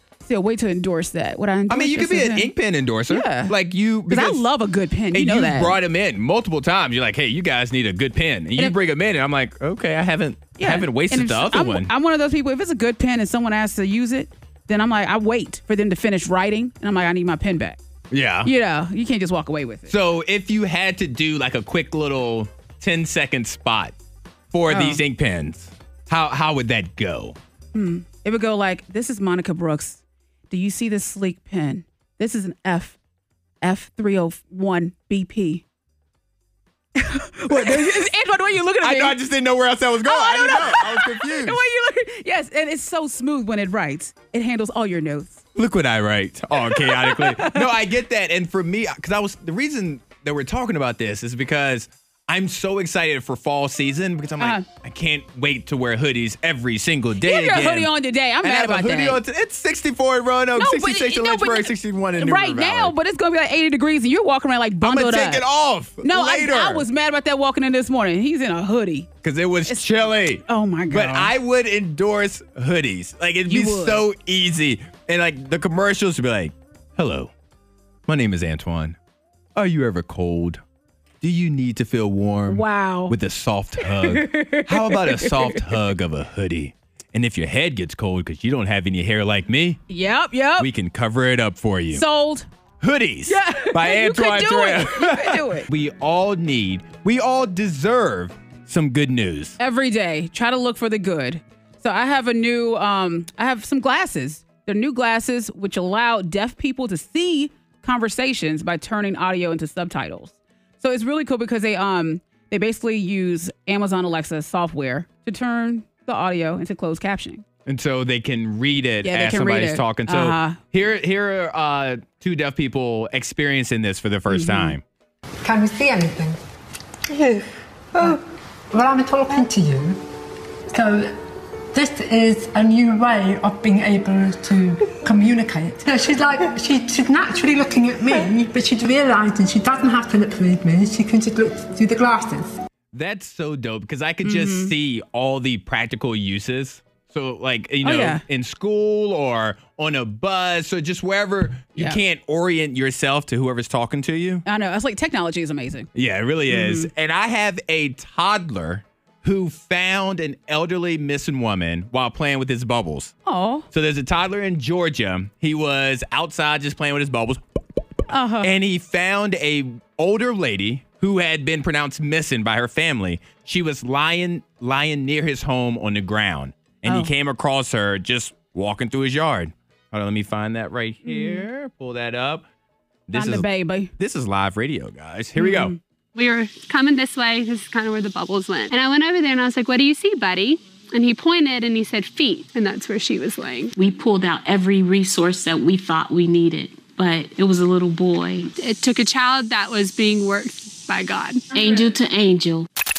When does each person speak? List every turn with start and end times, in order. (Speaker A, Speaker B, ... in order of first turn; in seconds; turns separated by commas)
Speaker A: 0.2-2.5, Speaker B: 1.7-4.4, Speaker A: 3.1-3.5, Speaker A: 4.1-5.8, Speaker B: 5.1-11.9, Speaker A: 10.6-17.8, Speaker B: 18.1-18.5, Speaker A: 18.4-19.9, Speaker B: 19.9-23.9, Speaker B: 24.5-27.4, Speaker A: 24.7-25.0, Speaker A: 27.7-33.0, Speaker A: 33.6-35.6, Speaker A: 37.0-39.2, Speaker B: 37.5-38.0, Speaker B: 38.8-41.6, Speaker A: 40.0-45.4, Speaker B: 45.5-57.9, Speaker A: 46.5-47.8, Speaker A: 54.4-54.6, Speaker A: 57.2-59.2, Speaker B: 58.4-62.9, Speaker A: 60.5-65.4, Speaker B: 64.8-66.8, Speaker A: 66.0-69.1, Speaker B: 69.2-77.3, Speaker A: 69.7-71.3, Speaker A: 73.5-74.0, Speaker B: 78.1-79.0, Speaker B: 79.5-80.6, Speaker B: 81.2-89.8, Speaker A: 82.5-83.2, Speaker A: 83.8-85.6, Speaker A: 89.9-90.7, Speaker B: 90.6-92.0, Speaker A: 91.9-92.5, Speaker B: 92.8-99.6, Speaker A: 93.3-95.7, Speaker A: 99.6-117.4, Speaker B: 117.7-124.8, Speaker A: 119.0-120.6, Speaker A: 124.3-124.8, Speaker C: 125.4-126.4, Speaker C: 127.1-130.0, Speaker C: 130.7-131.2, Speaker C: 131.7-142.6, Speaker B: 142.9-154.4, Speaker A: 144.2-144.7, Speaker A: 147.8-148.2, Speaker A: 154.4-155.9, Speaker B: 155.9-163.1, Speaker A: 156.5-156.9, Speaker A: 163.2-163.6, Speaker B: 163.7-167.8, Speaker A: 168.1-168.5, Speaker B: 168.4-182.4, Speaker A: 176.8-177.1, Speaker A: 181.0-181.4, Speaker B: 183.1-183.4, Speaker A: 183.1-183.9, Speaker B: 184.0-185.7, Speaker A: 185.4-185.8, Speaker D: 186.1-193.7, Speaker E: 193.7-198.5, Speaker D: 198.5-201.9, Speaker E: 201.5-202.7